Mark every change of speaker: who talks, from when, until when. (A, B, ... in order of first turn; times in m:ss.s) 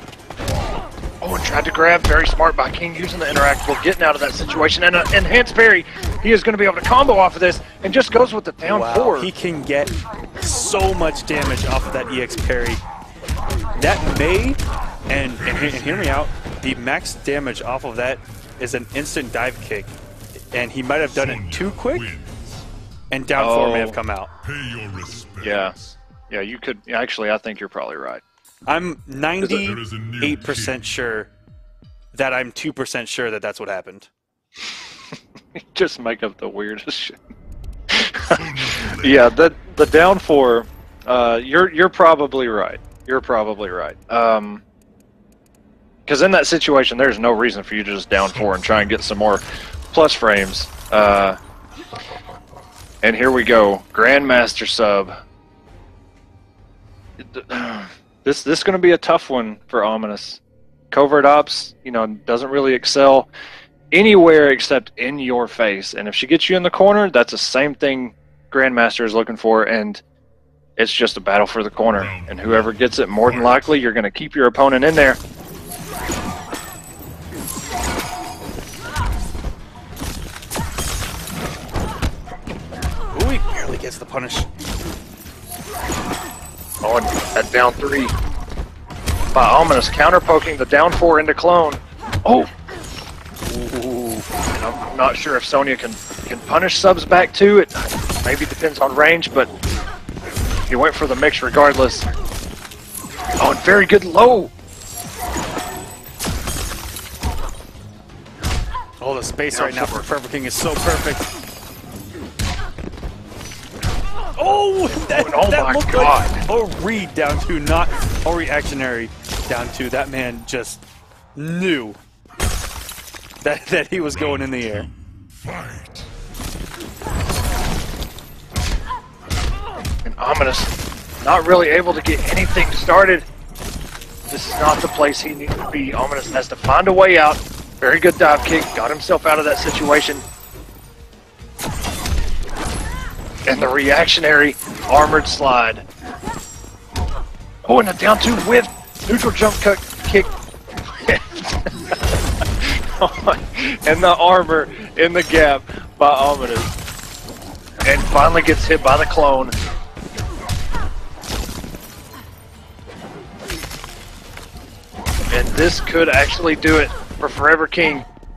0:01.2-0:09.3 A
0:08.7-0:12.8 B
0:13.8-0:19.9 B
0:15.4-0:16.1 C
0:20.5-0:22.1 B
0:21.1-0:22.6 C
0:23.1-0:24.3 B
0:23.4-0:24.0 A
0:24.4-0:25.9 C
0:25.4-0:25.8 A
0:26.3-0:28.2 A
0:28.7-0:31.3 B
0:29.4-0:29.7 A
0:29.7-0:30.8 C
0:32.1-0:34.1 B
0:34.6-0:37.2 A
0:37.9-0:44.6 A
0:38.4-0:39.2 C
0:46.1-0:51.4 A
0:53.0-0:55.1 A
0:57.2-1:03.3 A
1:03.9-1:10.0 A
1:10.8-1:15.2 A
1:12.0-1:12.7 C
1:13.3-1:13.6 C
1:23.1-1:24.5 B
1:26.8-1:28.1 A
1:29.3-1:32.5 A
1:33.5-1:34.2 B
1:34.5-1:39.5 A
1:40.7-1:42.1 A
1:43.4-1:44.5 A
1:49.0-1:51.3 B
1:49.5-1:50.1 A
1:54.4-2:00.8 B
1:55.1-1:56.4 A
2:01.4-2:02.0 B
2:03.4-2:04.9 B
2:04.2-2:06.1 C
2:10.0-2:13.2 A
2:14.3-2:20.2 A
2:23.5-2:25.8 A
2:27.6-2:30.3 A
2:30.9-2:32.0 A
2:32.6-2:36.7 A
2:37.8-2:39.5 A
2:45.3-2:48.0 A